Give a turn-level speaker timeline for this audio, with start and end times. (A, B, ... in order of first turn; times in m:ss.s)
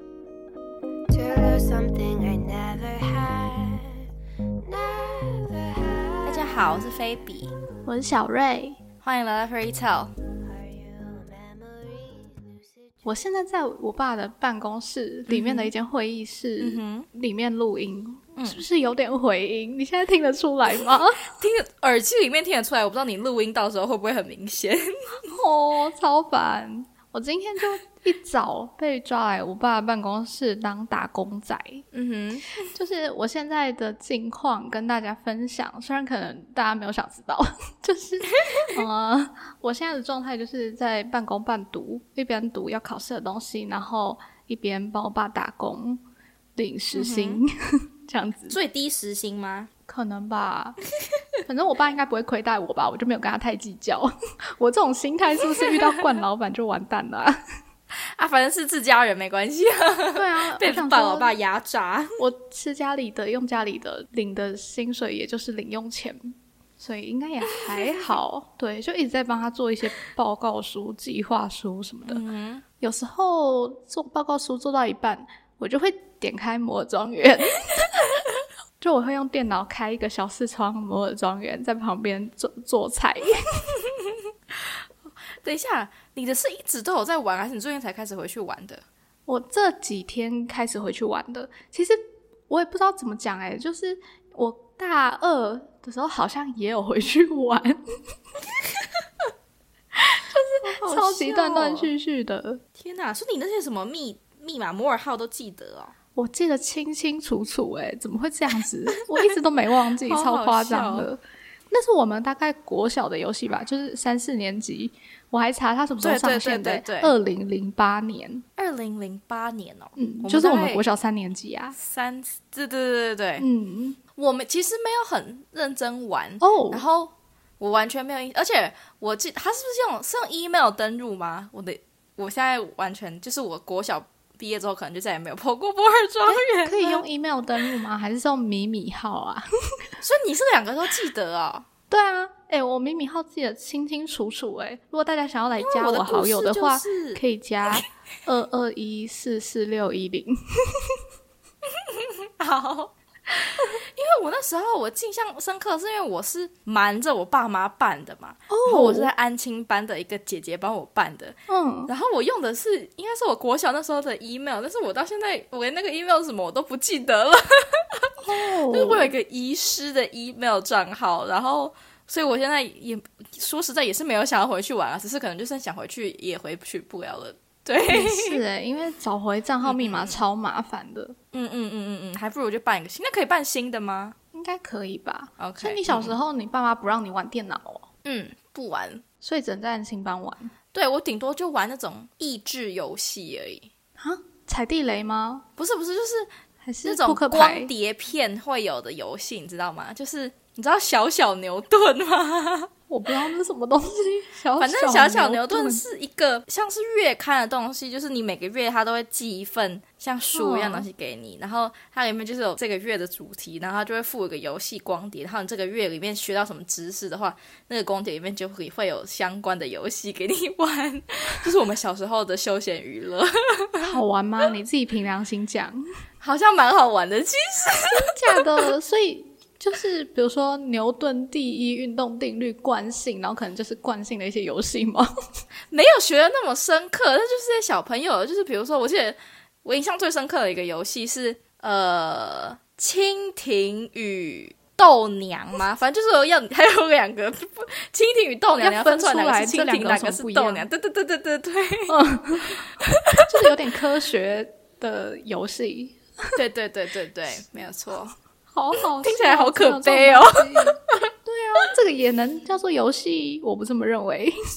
0:01.1-0:04.0 A
0:04.6-0:06.9 A
0:06.2-0:07.5 B
0:07.8-0:08.8 C
0:09.0-0:10.1 B
0:10.4-0:13.0 A
0:13.0-0:21.3 C
0:15.3-0:15.7 B
0:16.6-0:17.1 B
0:18.4-0:18.6 B
0:21.3-0:25.2 B
0:25.3-0:31.8 C
0:31.9-0:32.5 B
0:32.6-0:46.0 C
0:46.6-0:48.6 C
0:46.9-0:47.4 B
0:48.5-0:49.7 B
0:49.9-0:50.8 C
0:51.4-0:57.4 C
0:57.9-1:02.2 B
1:00.1-1:01.4 C
1:02.2-1:12.2 C
1:12.1-1:12.6 B
1:12.8-1:18.0 C
1:18.8-1:23.8 C
1:24.0-1:24.8 B
1:25.3-1:28.8 B
1:29.3-1:37.8 C
1:40.0-1:42.6 C
1:40.6-1:41.9 B
1:42.8-1:45.9 B
1:46.2-1:51.2 C
1:50.1-1:51.1 B
1:51.7-1:58.4 C
1:56.0-1:57.1 B
1:58.6-2:00.8 B
2:00.0-2:01.8 C
2:01.8-2:03.4 B
2:03.4-2:04.0 C
2:04.2-2:17.0 B
2:06.4-2:06.8 C
2:16.3-2:19.4 C
2:20.0-2:21.6 B
2:21.9-2:31.0 C
2:25.6-2:27.2 B
2:31.7-2:58.4 B
2:38.5-2:39.1 C
2:41.5-2:41.9 C
2:48.2-2:49.1 C
2:57.8-3:01.2 C
2:59.6-3:00.2 B
3:01.3-3:04.2 B
3:04.3-3:07.9 C
3:05.4-3:06.2 B
3:08.0-3:09.0 B
3:09.2-3:10.5 C
3:10.7-3:13.7 B
3:14.0-3:15.4 C
3:15.6-3:16.3 B
3:16.6-3:17.7 C
3:16.8-3:22.7 B
3:22.9-3:25.8 C
3:24.6-3:44.0 B
3:30.3-3:30.8 C
3:43.8-3:45.8 C
3:46.2-3:48.4 B
3:47.8-3:55.1 C
3:55.7-4:13.2 B
4:08.6-4:10.7 C
4:11.9-4:16.4 C
4:16.4-4:18.2 B
4:18.5-4:24.3 C
4:19.0-4:21.1 B